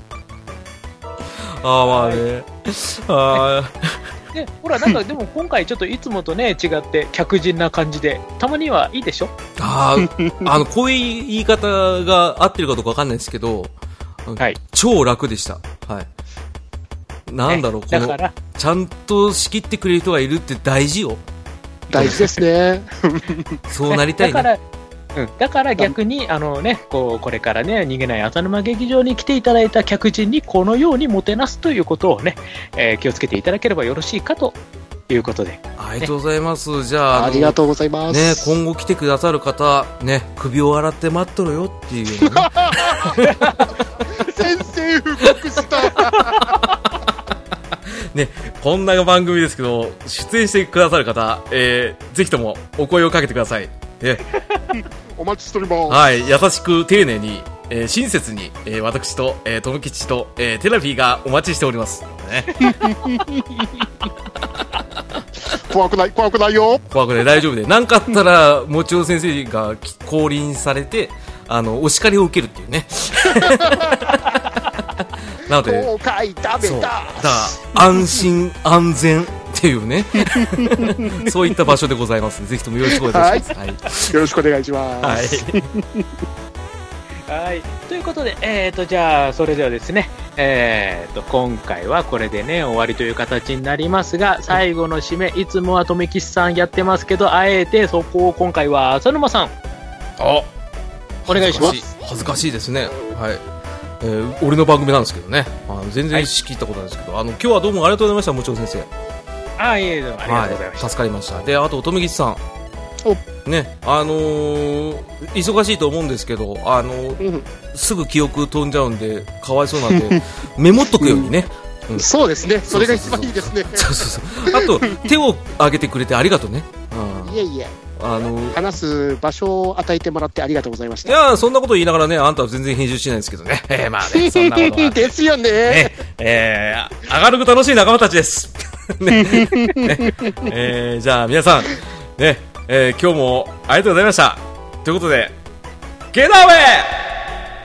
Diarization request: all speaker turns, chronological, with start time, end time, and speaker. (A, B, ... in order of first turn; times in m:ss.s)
0:01.6-0:04.0 A
0:01.8-0:02.2 B
0:04.3-0:09.4 B
0:09.6-0:13.7 A
0:10.0-0:10.6 C
0:14.3-0:16.1 A
0:17.3-0:21.2 A
0:17.5-0:18.4 B
0:21.9-0:23.6 C
0:22.0-0:22.2 A
0:23.7-0:24.5 A
0:23.9-0:24.6 B
0:25.2-0:34.6 B
0:35.1-0:36.1 B
0:35.8-0:37.6 A
0:37.1-0:38.6 C
0:38.1-0:43.4 A
0:42.2-0:43.2 C
0:43.2-0:43.6 B
0:44.0-0:46.7 C
0:45.3-0:47.0 A
0:48.1-0:54.2 A
0:55.2-0:56.0 C
0:55.9-1:02.8 A
1:02.6-1:03.8 C
1:05.5-1:06.8 C
1:06.9-1:15.9 A
1:13.4-1:14.0 C
1:15.5-1:18.2 C
1:16.6-1:24.2 A
1:20.2-1:21.5 C
1:23.0-1:23.5 C
1:24.0-1:26.1 C
1:25.0-1:25.6 A
1:27.3-1:39.5 B
1:40.2-1:40.5 A
1:41.3-1:43.4 A
1:41.3-1:41.8 B
1:41.6-1:41.8 C
1:44.0-1:48.9 A
1:49.6-1:50.9 B
1:50.3-1:52.4 A
1:53.4-2:02.1 A
1:57.2-1:57.5 C
2:01.0-2:01.3 C
2:02.0-2:03.9 C
2:02.7-2:07.4 A
2:04.5-2:05.1 C
2:07.2-2:07.8 C
2:08.0-2:08.6 A
2:08.5-2:11.1 C
2:11.0-2:15.1 A
2:14.1-2:16.0 C
2:15.6-2:25.4 A
2:19.1-2:20.5 C
2:26.1-2:27.1 A